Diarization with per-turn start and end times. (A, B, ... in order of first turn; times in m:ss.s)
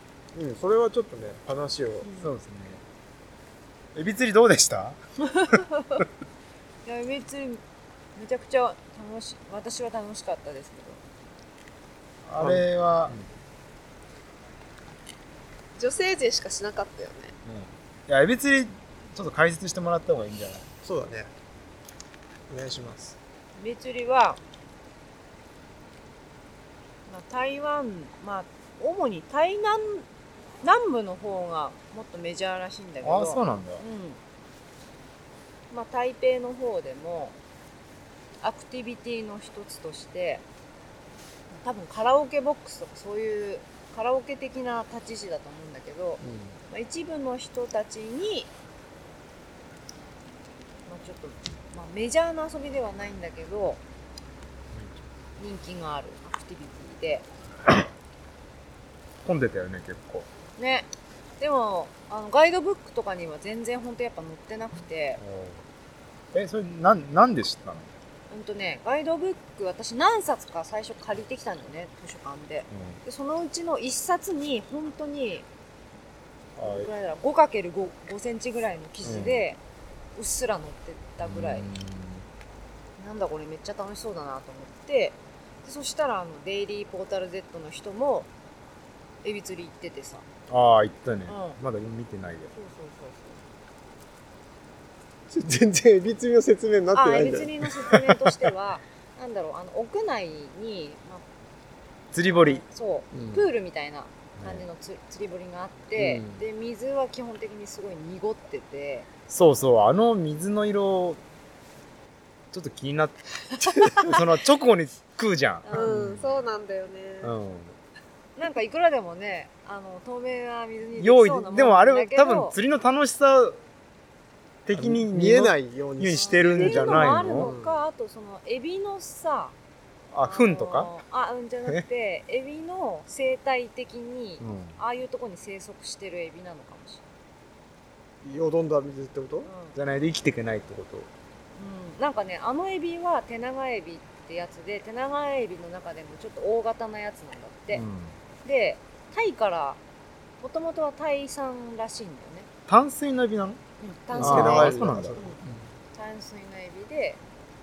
0:00.3-0:02.1 A
0:02.0-0:02.3 B
0:02.2-0:02.8 C
0:03.9-0:05.0 C
0:05.3-0:05.9 B
0:06.8-0:07.6 B
0:08.1-0:11.0 B
0:12.2-0:13.2 C
0:12.4-0:13.2 A
0:15.8-0:17.3 D
0:17.4-0:20.7 C
0:20.8-0:21.3 A
0:22.5-0:23.2 A
0:23.6-0:24.4 B
0:27.1-0:30.1 B
0:30.6-0:34.2 B
0:33.0-0:33.8 C
0:35.7-0:37.3 B
0:38.4-0:40.4 B
0:41.6-0:48.5 B
0:46.2-0:46.6 A
0:50.9-0:53.8 B
0:55.4-0:57.2 B
0:59.2-1:00.3 C
1:00.6-1:00.9 B
1:01.4-1:05.2 B
1:05.2-1:05.6 C
1:06.3-1:07.9 C
1:08.3-1:15.4 B
1:12.7-1:13.0 C
1:16.6-1:16.9 C
1:16.6-1:19.6 B
1:19.0-1:19.4 C
1:20.2-1:21.7 B
1:21.2-1:22.2 C
1:23.0-1:28.3 B
1:29.2-1:30.2 B
1:30.5-1:32.5 C
1:31.3-1:31.6 B
1:32.5-1:33.4 B
1:35.3-1:38.5 A
1:36.9-1:41.2 B
1:42.1-1:42.6 C
1:42.3-1:49.1 B
1:43.1-1:43.5 A
1:44.4-1:44.6 C
1:46.0-1:46.4 A
1:49.3-1:51.2 C
1:52.5-1:53.2 C
1:53.8-1:54.0 B
1:53.8-1:55.7 C
1:55.6-1:56.0 B
1:55.7-1:57.3 D
1:55.8-1:56.2 A
1:57.2-1:57.8 C
1:58.4-2:02.6 B
2:01.0-2:03.6 C
2:04.6-2:07.5 C
2:04.7-2:07.8 A
2:06.1-2:09.5 B
2:10.1-2:10.9 C
2:10.2-2:17.0 B
2:14.4-2:14.8 C
2:18.2-2:19.5 A
2:19.4-2:19.8 B
2:19.7-2:21.1 C
2:21.6-2:27.8 B
2:27.7-2:28.1 C
2:28.4-2:29.8 B
2:30.4-2:32.5 B
2:32.7-2:33.6 C
2:33.8-2:35.4 B
2:34.1-2:35.7 A
2:34.2-2:35.2 C
2:35.9-2:37.2 B